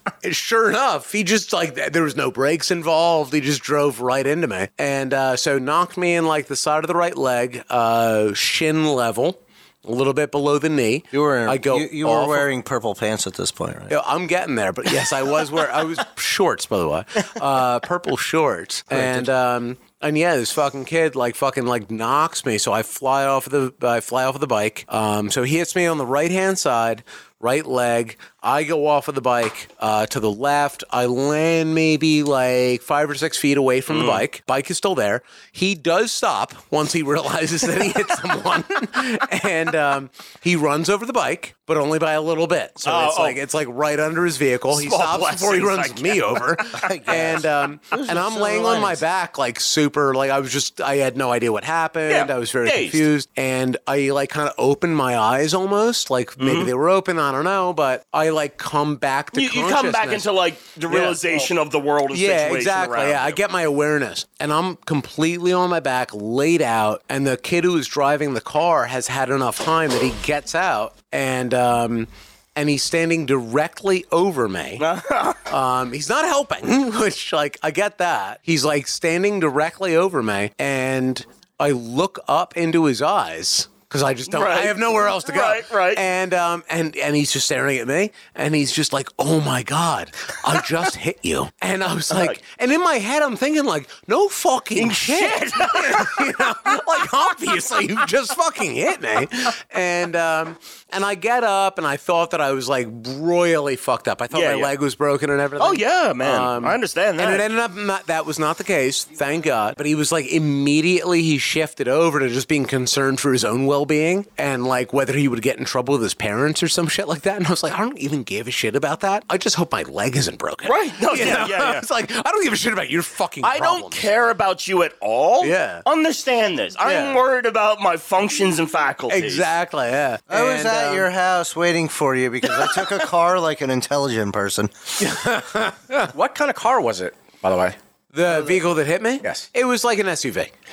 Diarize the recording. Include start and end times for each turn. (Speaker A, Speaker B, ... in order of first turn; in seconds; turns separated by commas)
Speaker A: 0.2-12.5, Speaker B: 11.1-13.9, Speaker A: 13.9-60.3, Speaker B: 18.9-19.2, Speaker C: 33.9-34.2, Speaker C: 42.8-43.4, Speaker C: 44.7-46.4, Speaker B: 46.8-49.0, Speaker C: 52.1-53.0, Speaker C: 56.4-56.7, Speaker C: 59.3-63.4, Speaker A: 60.9-61.5, Speaker A: 62.1-74.8, Speaker C: 74.8-75.4, Speaker A: 75.5-124.1, Speaker C: 84.3-86.0, Speaker C: 92.1-92.4, Speaker C: 94.8-96.3, Speaker C: 104.3-104.7, Speaker C: 105.6-107.4, Speaker C: 120.6-121.8, Speaker C: 123.4-129.5, Speaker A: 125.4-125.8, Speaker A: 126.8-127.2, Speaker A: 129.1-131.1, Speaker B: 130.3-134.7, Speaker A: 135.0-136.1, Speaker D: 136.1-137.8, Speaker A: 138.1-140.5, Speaker D: 139.2-139.5